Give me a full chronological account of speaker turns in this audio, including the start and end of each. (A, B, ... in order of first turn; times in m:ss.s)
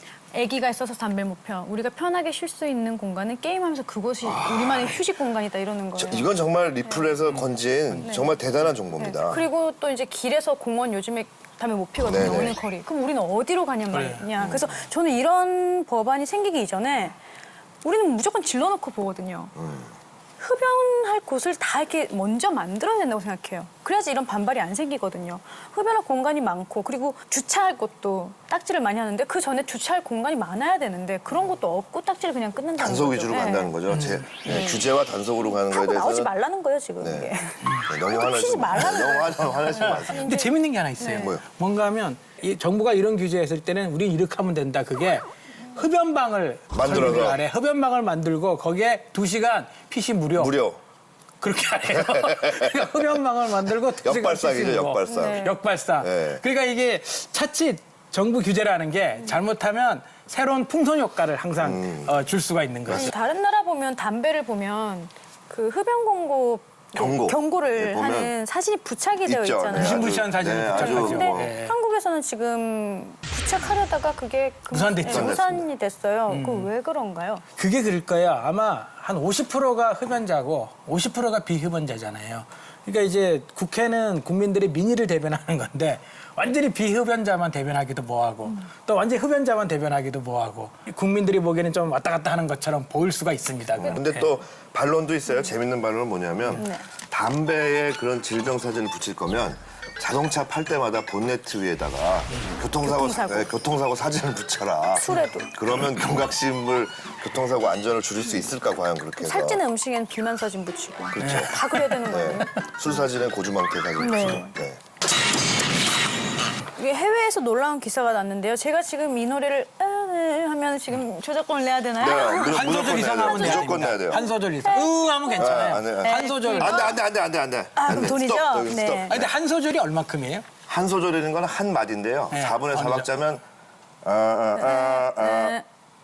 0:00.3-0:06.3 A
0:04.2-0:05.0 B
0:06.0-0:09.4 B
0:07.3-0:08.0 C
0:08.0-0:08.4 A
0:09.0-0:17.2 A
0:12.0-0:12.6 B
0:13.9-0:14.3 C
0:14.4-0:14.9 B
0:17.8-0:19.5 A
0:19.6-0:19.9 B
0:20.4-0:33.8 A
0:32.8-0:36.3 B
0:33.9-0:34.3 C
0:34.4-0:34.9 A
0:35.5-0:40.5 A
0:37.0-0:37.3 B
0:37.9-0:40.3 B
0:40.1-0:50.5 C
0:41.0-0:41.3 A
0:41.1-0:41.4 B
0:46.7-0:47.4 B
0:50.4-0:50.8 B
0:51.4-1:03.1 C
0:51.9-0:53.2 B
0:54.0-0:55.5 B
0:55.1-0:55.6 A
0:56.0-0:56.4 B
1:01.6-1:02.2 B
1:02.9-1:03.1 B
1:02.9-1:17.4 A
1:07.0-1:08.3 B
1:09.2-1:11.6 B
1:09.8-1:11.7 C
1:14.7-1:15.4 C
1:15.0-1:15.7 B
1:16.3-1:16.7 C
1:17.6-1:34.3 C
1:33.8-1:49.6 B
1:36.6-1:36.9 A
1:42.8-1:43.5 A
1:44.9-1:45.5 A
1:49.2-1:52.7 A
1:51.1-1:54.8 B
1:51.2-1:52.0 C
1:54.0-1:54.5 A
1:56.8-2:07.0 A
2:02.0-2:04.2 B
2:02.3-2:07.0 C
2:05.4-2:09.3 B
2:07.8-2:09.2 A
2:09.1-2:10.5 C
2:10.7-2:13.4 B
2:12.3-2:13.1 C
2:14.0-2:15.6 B
2:14.6-2:15.6 A